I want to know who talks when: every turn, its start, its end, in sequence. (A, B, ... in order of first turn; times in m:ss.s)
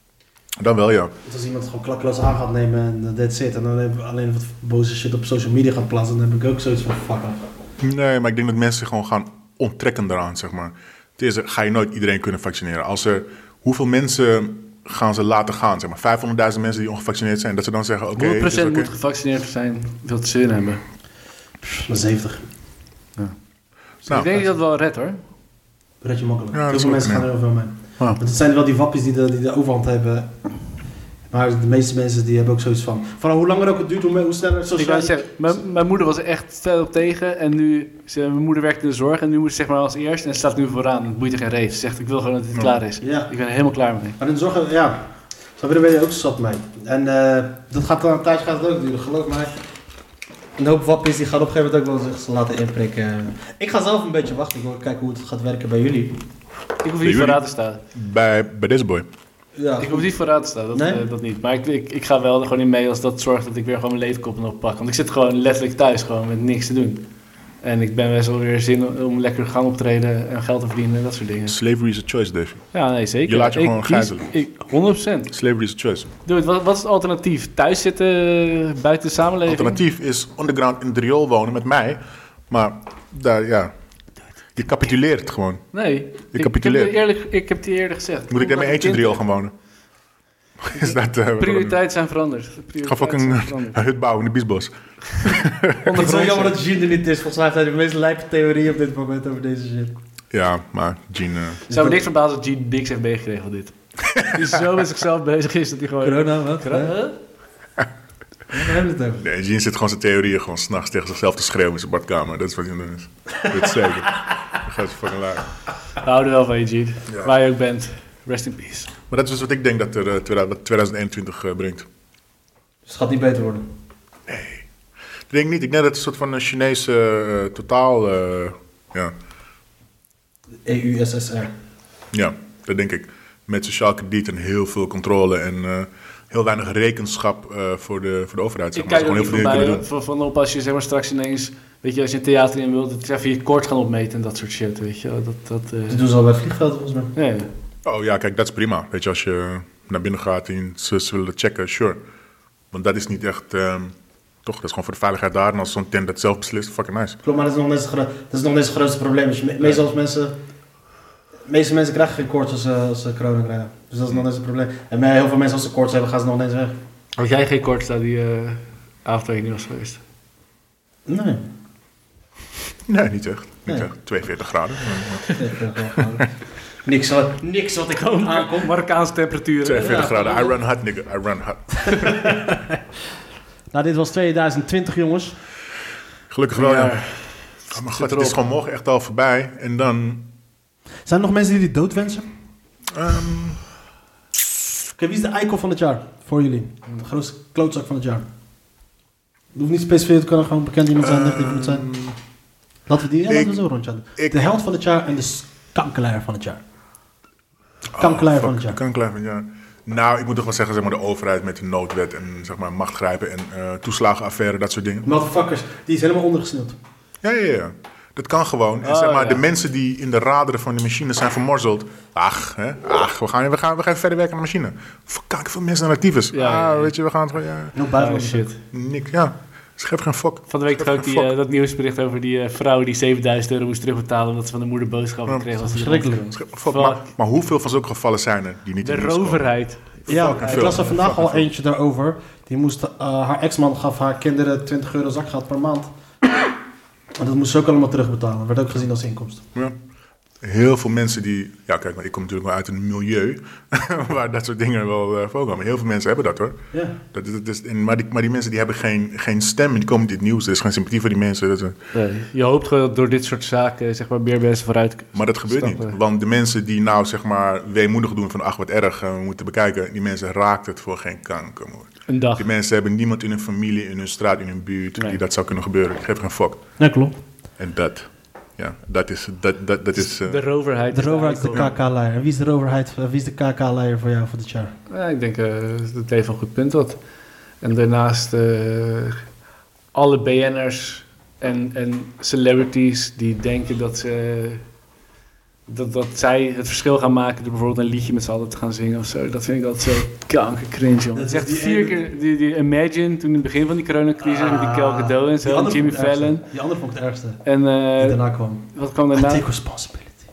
0:00.6-0:01.1 A
0:01.2-0:07.4 B
0:07.8-0:18.9 A
0:18.2-0:20.8 C
0:21.6-0:22.4 B
0:24.0-0:24.4 A
0:24.0-0:25.2 C
0:26.0-0:30.3 B
0:26.5-0:27.3 A
0:31.3-0:35.2 B
0:34.7-0:44.2 C
0:43.0-0:43.3 B
0:44.2-0:49.5 B
0:50.6-0:56.2 B
0:56.8-0:57.8 C
0:57.0-0:57.4 A
0:57.9-0:59.1 A
0:59.6-1:00.1 B
0:59.8-1:07.0 C
1:00.7-1:01.0 B
1:07.6-1:11.6 C
1:11.5-1:12.7 A
1:12.7-1:15.3 C
1:13.3-1:14.3 A
1:15.3-1:16.1 A
1:16.2-1:19.8 C
1:19.5-1:23.7 A
1:24.6-1:25.6 A
1:25.7-1:29.2 C
1:26.3-1:26.9 A
1:28.3-1:29.5 A
1:30.6-1:31.8 A
1:30.7-1:33.8 C
1:32.8-1:35.8 A
1:35.8-1:36.5 C
1:35.9-1:40.0 B
1:40.3-1:41.6 A
1:41.7-1:42.0 B
1:41.7-1:47.2 C
1:46.0-1:46.9 B
1:48.5-1:49.2 B
1:49.2-1:55.5 A
1:53.4-1:53.8 B
1:56.0-1:58.9 C
1:57.1-1:57.3 A
1:59.1-2:01.8 A
2:02.8-2:03.7 B
2:04.3-2:04.6 A
2:05.3-2:09.1 A
2:10.6-2:11.5 B
2:12.1-2:19.8 A
2:18.7-2:26.0 C
2:25.9-2:27.1 B
2:27.1-2:27.5 C
2:27.8-2:32.0 A
2:32.7-2:33.9 A
2:34.4-2:37.2 A
2:37.2-2:40.3 B
2:41.5-2:46.8 B
2:47.2-2:50.0 C
2:51.1-2:51.4 B
2:52.9-2:55.3 A
2:55.3-2:56.3 B
2:56.8-2:58.7 B
2:57.9-3:00.5 C
2:59.6-3:02.4 A
2:59.8-3:00.1 B
3:01.8-3:02.8 B
3:03.7-3:05.4 B
3:06.3-3:07.0 A
3:06.5-3:08.5 C
3:07.7-3:10.3 A
3:11.0-3:12.3 B
3:12.9-3:13.6 A
3:14.9-3:18.2 B
3:19.5-3:21.8 B
3:21.0-3:22.2 A
3:22.9-3:26.6 B
3:23.3-3:23.6 A
3:27.9-3:35.1 A
3:28.0-3:28.8 B
3:35.0-3:36.8 B
3:37.2-3:47.8 A
3:38.8-3:39.4 C
3:46.3-3:46.9 C
3:47.7-3:48.5 B
3:48.0-3:48.6 C
3:48.7-3:51.3 A
3:50.5-3:57.1 C
3:55.6-3:56.3 B
3:56.3-3:59.5 A
3:58.8-4:00.9 C
4:00.1-4:01.4 A
4:00.1-4:05.9 B
4:07.2-4:09.4 B
4:10.4-4:16.6 A
4:17.1-4:21.8 A
4:21.9-4:26.0 C
4:25.1-4:36.6 A
4:32.1-4:32.4 C
4:36.8-4:37.2 B
4:37.6-4:40.4 A
4:40.0-4:41.7 C
4:40.9-4:44.7 B
4:44.9-4:47.0 C
4:47.6-4:49.2 C
4:49.9-4:54.6 C
4:55.7-5:06.4 C
5:01.1-5:02.0 B
5:04.2-5:07.4 B
5:07.4-5:08.2 C
5:08.0-5:10.1 B
5:08.7-5:09.4 C